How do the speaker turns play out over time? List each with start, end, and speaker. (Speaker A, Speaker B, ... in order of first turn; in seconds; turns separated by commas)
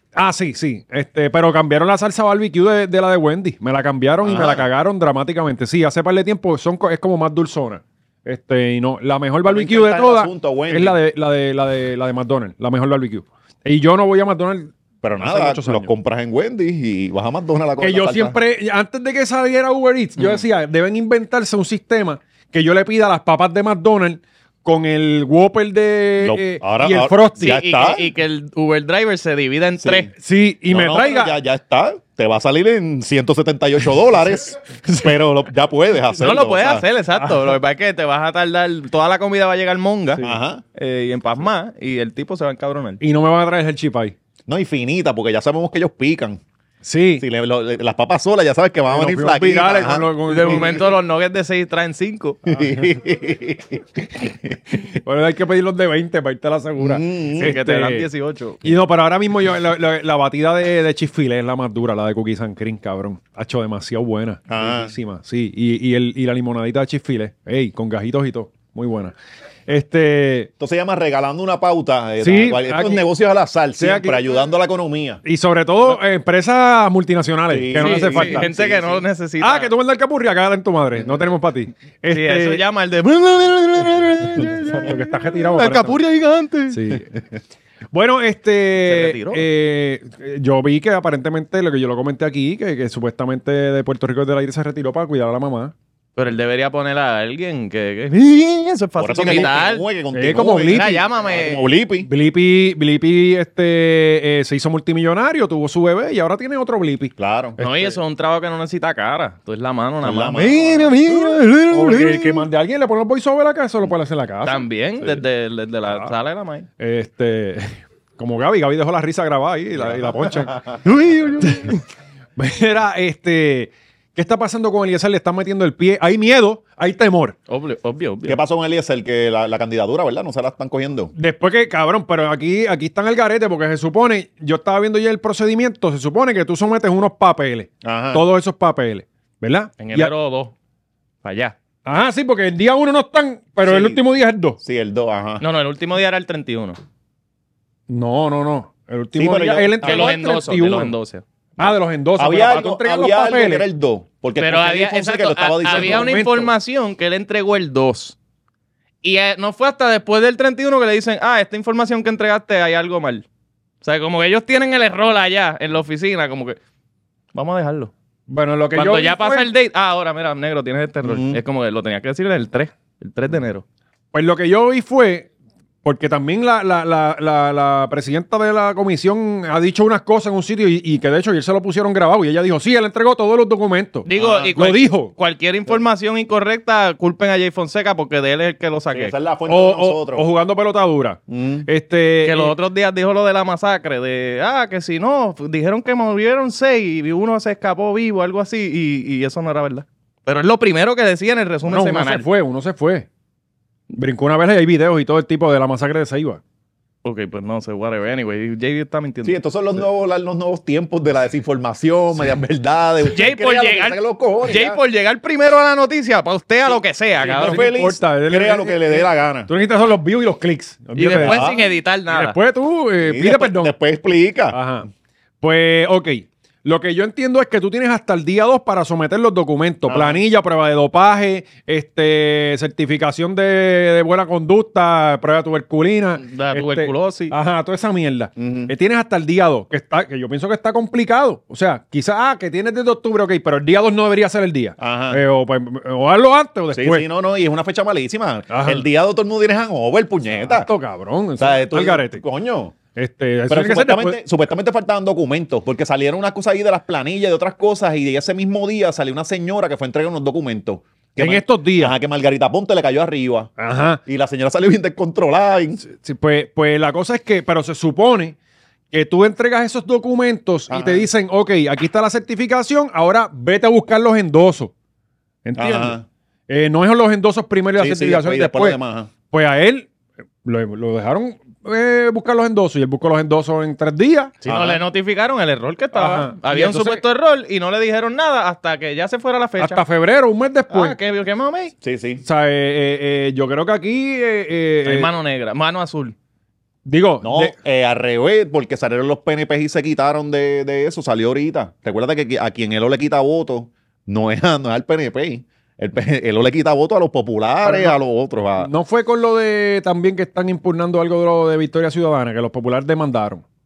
Speaker A: 0.1-15.9, Speaker B: 4.2-4.7, Speaker B: 9.4-11.0, Speaker B: 15.0-18.4, Speaker A: 17.8-27.6, Speaker B: 26.2-28.1, Speaker C: 27.4-30.1, Speaker B: 29.8-30.1, Speaker A: 30.2-31.4, Speaker B: 30.7-36.9, Speaker C: 36.1-40.2, Speaker A: 37.2-37.5, Speaker B: 40.2-40.6, Speaker C: 40.8-43.0, Speaker A: 43.0-44.1, Speaker B: 44.5-46.4, Speaker A: 46.8-47.2, Speaker B: 47.2-50.8, Speaker A: 48.9-50.8, Speaker C: 50.3-52.4, Speaker B: 52.5-54.8, Speaker A: 54.8-58.1, Speaker B: 56.8-57.6, Speaker C: 57.4-58.7, Speaker A: 58.6-69.2, Speaker B: 64.5-64.9, Speaker A: 69.7-70.5, Speaker B: 70.6-75.2, Speaker A: 72.2-73.0, Speaker A: 73.8-74.3, Speaker A: 75.2-78.5, Speaker B: 77.5-79.0, Speaker C: 77.8-79.7, Speaker A: 79.4-82.6, Speaker C: 82.1-86.8, Speaker A: 84.5-86.0, Speaker A: 86.7-87.1, Speaker A: 87.9-95.7, Speaker C: 88.8-89.5, Speaker C: 96.2-99.9, Speaker B: 99.0-102.1, Speaker A: 100.1-101.0, Speaker C: 100.7-101.7, Speaker A: 102.0-108.0, Speaker B: 107.2-107.6, Speaker C: 107.6-112.5, Speaker B: 110.0-111.2, Speaker A: 111.3-114.6, Speaker C: 114.5-116.7, Speaker A: 116.8-121.8, Speaker B: 119.8-120.8, Speaker C: 120.9-121.7, Speaker A: 122.4-127.4, Speaker C: 127.5-128.4, Speaker B: 128.3-131.1, Speaker A: 131.2-140.1, Speaker B: 137.8-138.3, Speaker C: 139.8-140.5, Speaker C: 141.2-141.6, Speaker A: 141.8-144.6, Speaker B: 143.6-144.0, Speaker B: 144.6-145.4, Speaker C: 145.4-146.8, Speaker A: 147.9-150.9, Speaker B: 149.2-150.2, Speaker C: 149.8-151.2, Speaker A: 151.6-153.7, Speaker B: 151.6-156.2, Speaker C: 154.4-158.2, Speaker A: 155.7-156.5, Speaker C: 159.0-163.2, Speaker C: 163.8-166.6, Speaker C: 167.3-167.9, Speaker A: 168.3-169.5, Speaker C: 168.7-173.6, Speaker B: 171.0-171.4, Speaker A: 174.1-175.3, Speaker A: 175.8-185.1, Speaker C: 184.1-189.1, Speaker B: 184.2-184.6, Speaker B: 188.9-190.3, Speaker A: 189.5-192.5, Speaker B: 191.3-191.7, Speaker C: 192.2-202.3, Speaker A: 201.7-203.1, Speaker A: 203.9-206.4, Speaker C: 207.0-209.4, Speaker B: 209.2-214.8, Speaker C: 213.1-217.7, Speaker B: 217.2-219.5, Speaker A: 217.2-221.5, Speaker C: 221.0-222.4, Speaker B: 221.2-221.7, Speaker A: 222.1-223.7, Speaker B: 223.0-224.6, Speaker A: 224.5-224.9, Speaker A: 225.4-247.0, Speaker B: 229.9-230.2, Speaker C: 236.2-237.3, Speaker B: 238.4-238.7, Speaker B: 244.8-245.2, Speaker B: 246.7-250.7, Speaker A: 248.5-248.9, Speaker A: 250.4-252.2, Speaker B: 251.4-252.8, Speaker A: 252.9-254.2, Speaker B: 253.5-263.5, Speaker A: 261.2-261.9, Speaker A: 263.6-264.0, Speaker B: 264.1-265.8, Speaker A: 265.9-268.4, Speaker A: 268.9-274.7, Speaker B: 270.7-271.1, Speaker A: 275.4-276.0, Speaker B: 275.6-276.1, Speaker A: 276.5-278.8, Speaker B: 277.8-279.1, Speaker A: 279.3-279.9, Speaker A: 280.4-284.3, Speaker C: 284.4-289.8, Speaker B: 284.4-284.8, Speaker A: 285.9-287.0, Speaker A: 289.6-291.0, Speaker C: 290.7-291.7, Speaker B: 291.8-292.2, Speaker A: 292.2-295.1, Speaker C: 294.9-296.1, Speaker A: 296.9-297.5, Speaker B: 297.2-308.7, Speaker A: 307.6-308.0, Speaker A: 308.6-313.4